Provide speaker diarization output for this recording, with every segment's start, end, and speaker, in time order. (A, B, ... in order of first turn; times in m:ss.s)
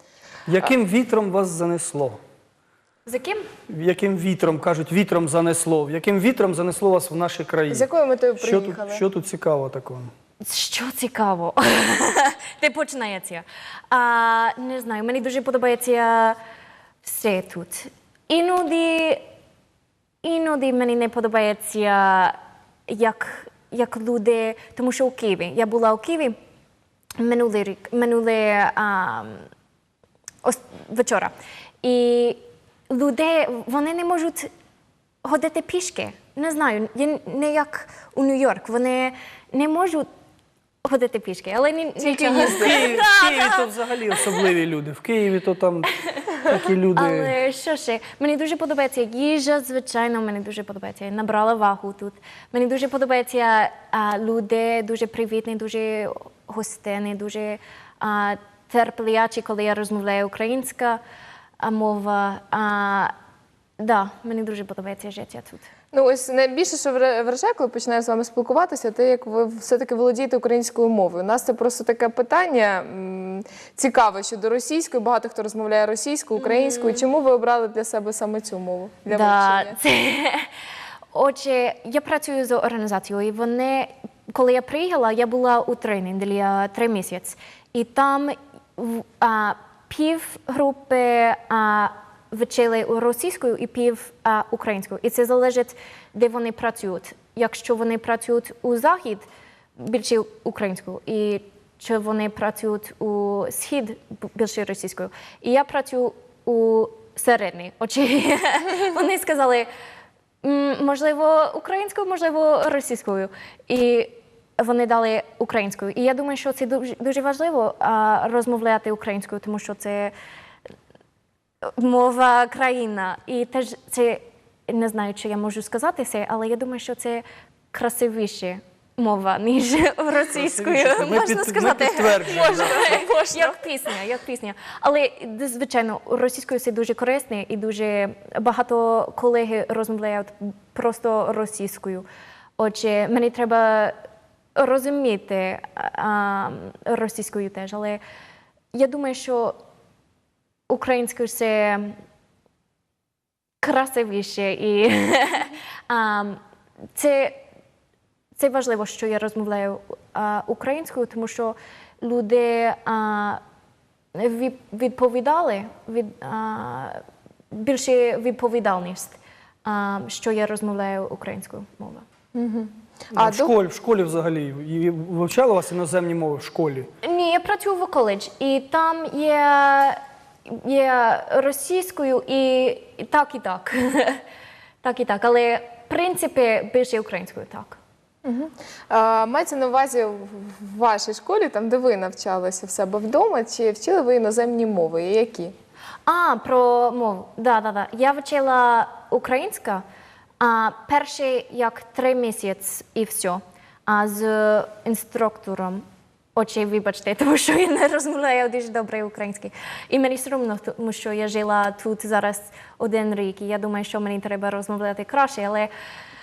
0:00.5-0:02.2 A
0:03.0-0:03.5 B
0:03.7-0:07.8 A
0:07.7-0:09.0 C
0:08.4-0:10.1 A
0:10.4-0:16.4 B
0:17.0-0:19.2 B
0:20.2-0:22.4 B
0:22.9-0:26.4 B
0:27.2-0:29.4 B
0:30.4-0:31.3 B
0:31.8-0:34.5 B
0:35.2-0:40.1 B
0:40.8-0:44.4 B
0:42.0-0:43.0 C
0:42.4-0:45.9 A
0:46.4-0:47.3 A
0:46.5-1:01.0 B
1:01.6-1:03.1 B
1:03.8-1:05.7 B
1:05.9-1:19.8 C
1:16.4-1:17.1 B
1:19.1-1:20.5 B
1:21.1-1:39.3 B
1:39.8-1:49.7 B
1:50.4-2:00.1 B
2:01.8-2:22.0 B
2:10.4-2:13.0 A
2:12.1-2:13.5 C
2:22.6-2:24.0 B
2:24.6-2:28.0 B
2:28.7-2:29.6 B
2:30.7-2:32.0 B
2:33.6-2:36.4 B
2:36.9-2:37.4 B
2:38.4-2:43.4 B
2:44.1-2:52.0 B
2:52.3-2:53.5 C
2:53.1-2:56.9 A
2:57.0-3:04.2 B
3:04.8-3:07.8 B
3:08.2-3:15.5 C
3:16.0-3:19.8 B
3:20.4-3:25.8 B
3:26.3-3:35.7 B